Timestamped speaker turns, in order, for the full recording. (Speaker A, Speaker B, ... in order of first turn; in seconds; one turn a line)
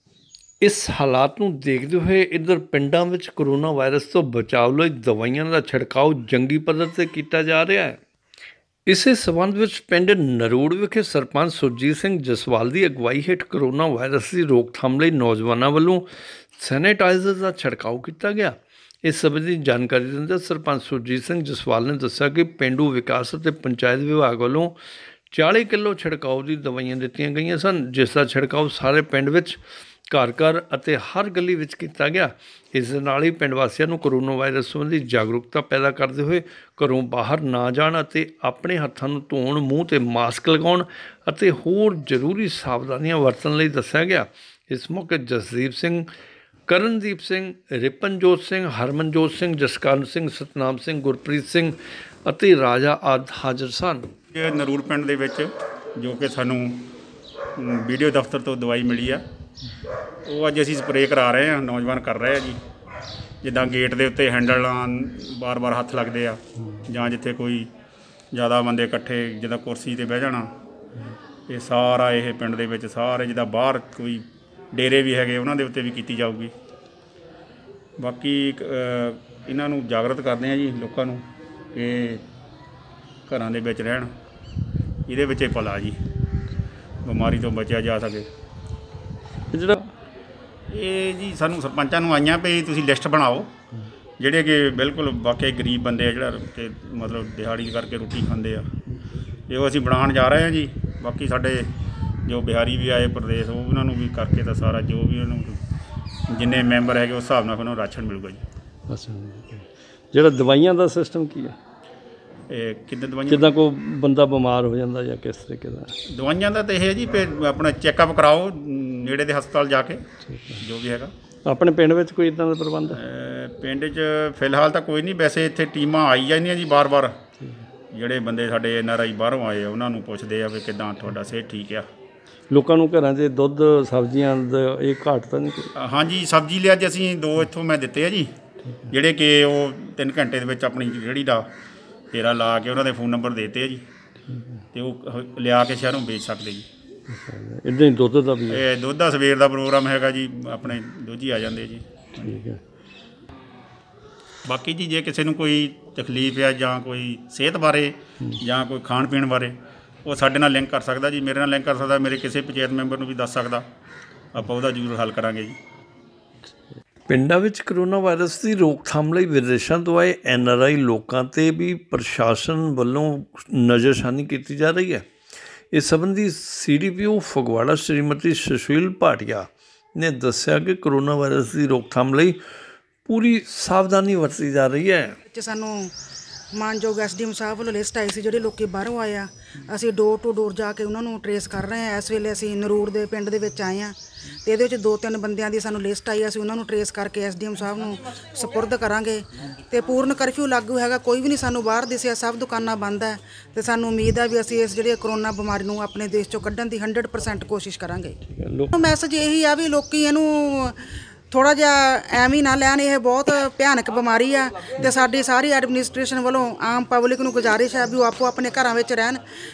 Speaker A: 0.6-8.0
Speaker A: 8.9-16.1
Speaker A: 16.6-24.7
Speaker A: 25.3-29.6
Speaker A: 30.1-46.1
Speaker A: 46.7-54.1
Speaker B: 54.3-56.9
Speaker B: 57.5-59.2
Speaker B: 60.2-62.6
Speaker B: 63.4-67.7
Speaker B: 68.3-70.5
Speaker B: 71.5-76.5
Speaker B: 78.0-82.2
Speaker B: 83.3-84.1
Speaker B: 85.1-85.9
Speaker B: 87.0-88.3
Speaker A: 89.5-89.9
Speaker B: 90.7-93.5
Speaker B: 94.2-98.7
Speaker B: 99.5-101.7
Speaker B: 102.2-105.6
Speaker B: 106.3-108.4
Speaker A: 108.9-111.5
Speaker B: 112.5-113.5
Speaker A: 113.3-115.9
Speaker B: 116.1-120.0
Speaker A: 120.3-120.6
Speaker B: 120.6-121.1
Speaker A: 121.4-123.0
Speaker B: 122.9-127.1
Speaker B: 127.9-131.8
Speaker A: 132.5-135.7
Speaker B: 135.7-138.3
Speaker B: 138.9-141.5
Speaker B: 142.1-143.8
Speaker B: 144.7-146.7
Speaker A: 147.1-148.6
Speaker B: 148.5-152.2
Speaker A: 152.2-152.6
Speaker B: 154.4-159.5
Speaker B: 160.0-163.6
Speaker B: 164.3-165.6
Speaker A: 167.1-175.1
Speaker A: 175.7-182.4
Speaker A: 183.1-185.2
Speaker C: 185.3-185.9
Speaker C: 186.5-208.2
Speaker A: 208.3-208.7
Speaker C: 208.7-210.8
Speaker C: 211.3-219.2